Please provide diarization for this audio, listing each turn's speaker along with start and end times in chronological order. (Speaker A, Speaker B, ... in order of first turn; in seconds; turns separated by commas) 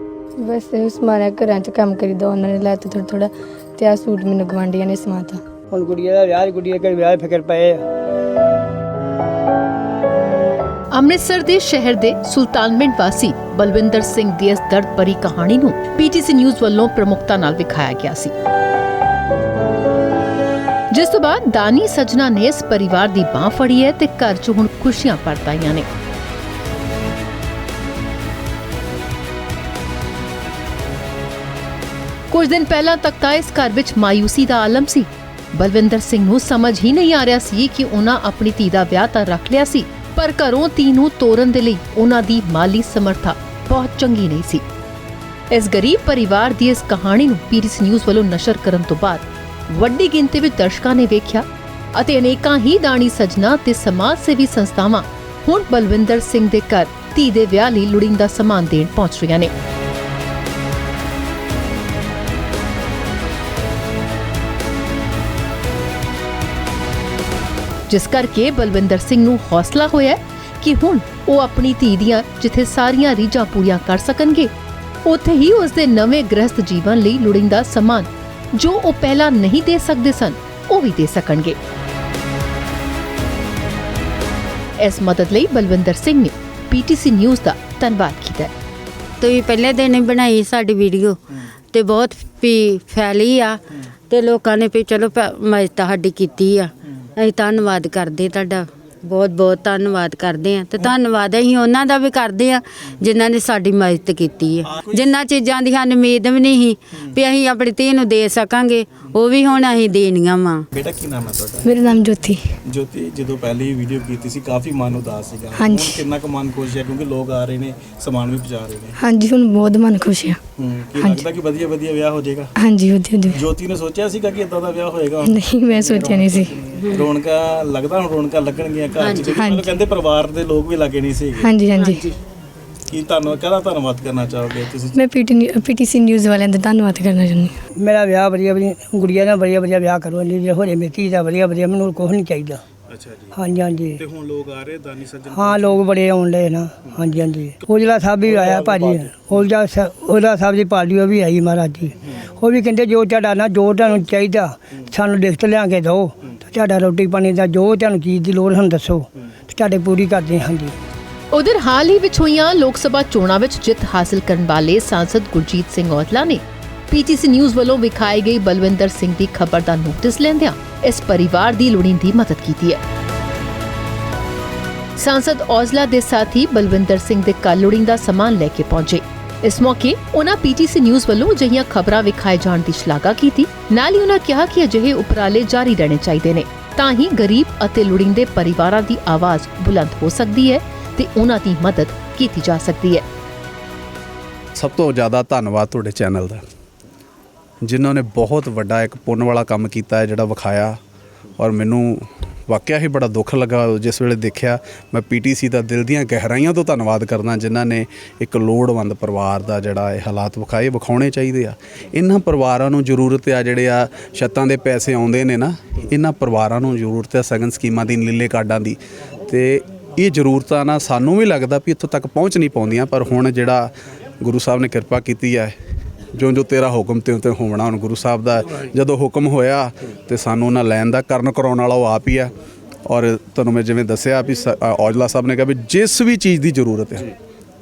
Speaker A: 0.4-5.4, Speaker B: 5.7-7.8, Speaker C: 10.9-18.3, Speaker C: 20.9-25.9, Speaker C: 32.3-44.6, Speaker C: 45.5-59.5, Speaker C: 67.9-74.5, Speaker C: 75.0-81.6, Speaker C: 84.8-88.5, Speaker D: 89.2-91.2, Speaker D: 91.7-93.6, Speaker D: 94.1-110.6, Speaker E: 104.6-105.1, Speaker E: 110.7-111.9, Speaker A: 111.6-112.5, Speaker E: 112.6-119.0, Speaker A: 115.5-116.0, Speaker A: 119.0-120.4, Speaker E: 120.6-122.5, Speaker A: 121.0-121.3, Speaker A: 122.5-123.5, Speaker E: 123.3-131.6, Speaker A: 125.2-126.5, Speaker D: 129.0-129.3, Speaker A: 129.3-129.8, Speaker A: 131.4-132.1, Speaker D: 131.8-132.1, Speaker E: 132.9-135.1, Speaker A: 134.9-137.5, Speaker B: 137.8-142.6, Speaker E: 142.9-143.4, Speaker B: 143.3-144.0, Speaker E: 143.9-145.8, Speaker B: 145.3-160.7, Speaker E: 146.9-147.6, Speaker E: 148.2-149.5, Speaker C: 161.3-172.8, Speaker C: 175.0-193.1, Speaker F: 194.6-196.4, Speaker F: 197.6-200.8, Speaker F: 201.4-218.8, Speaker F: 219.3-225.5, Speaker F: 226.1-232.3, Speaker F: 232.9-237.1